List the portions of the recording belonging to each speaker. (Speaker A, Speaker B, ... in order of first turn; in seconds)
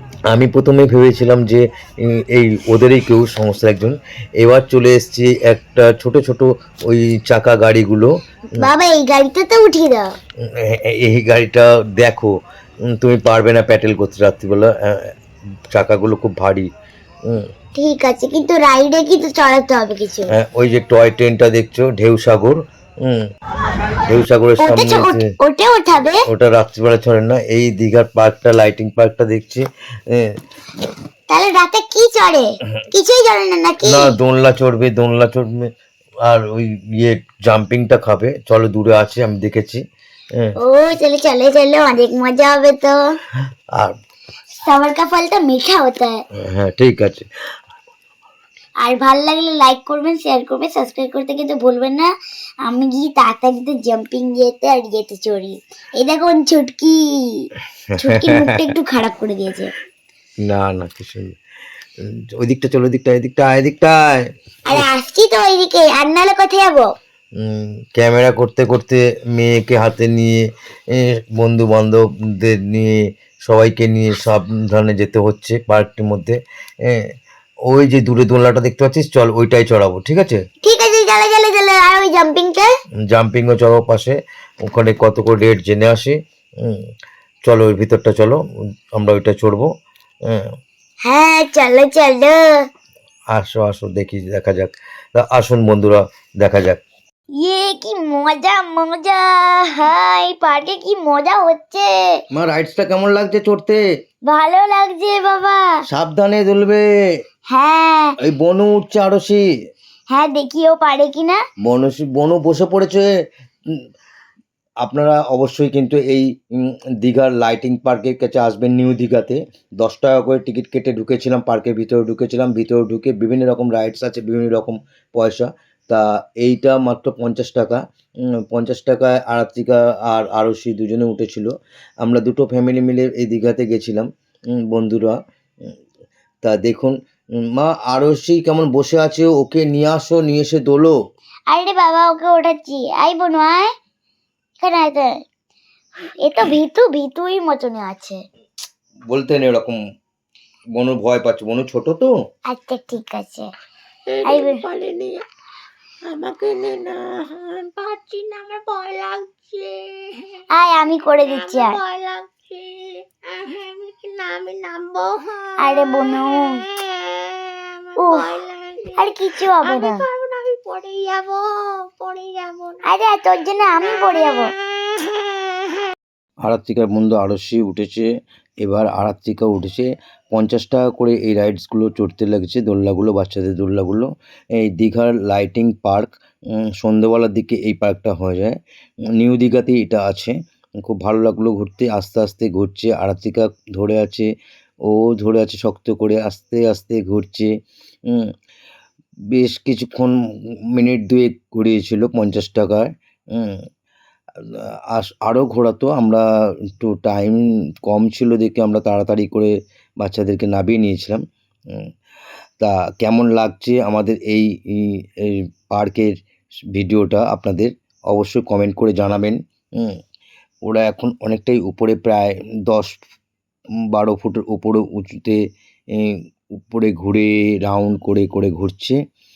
Speaker A: 0.3-8.7, 10.4-12.3, 12.9-15.1, 15.7-16.7, 20.3-23.3, 24.0-25.3, 26.2-30.3, 33.8-35.7, 36.2-39.8, 46.4-47.3, 57.9-58.6, 60.4-61.4, 62.0-64.8, 67.4-70.4, 70.9-77.1, 77.7-80.4, 83.1-86.8, 87.5-88.4, 88.9-89.7, 93.3-96.8, 102.3-103.8, 105.9-106.8, 108.2-109.4, 111.6-113.1, 114.8-127.8, 128.3-135.2, 136.4-136.9, 137.5-140.9, 149.1-149.8, 150.7-152.1, 176.4-178.1, 178.6-188.6, 189.2-194.3, 194.9-197.5, 199.3-200.2, 200.7-203.6, 204.4-211.2, 212.6-216.1, 216.7-220.0, 220.7-223.0, 223.9-225.4, 225.9-229.0
Speaker B: 8.6-10.1, 17.7-20.3, 24.6-26.2, 31.3-34.1, 40.6-43.2, 44.6-46.2, 48.8-52.1, 52.6-59.7, 64.7-66.9, 80.6-82.7, 91.0-92.7, 97.4-102.2, 104.3-105.8, 107.5-108.2, 110.1-111.4, 141.5-143.7, 144.6-145.1, 146.2-148.2, 152.5-153.5, 154.2-154.7, 160.5-161.8, 165.6-166.6, 168.0-168.4, 169.0-170.0, 172.8-174.5
Speaker C: 154.1-155.2, 156.1-160.4, 161.4-169.0, 169.6-172.8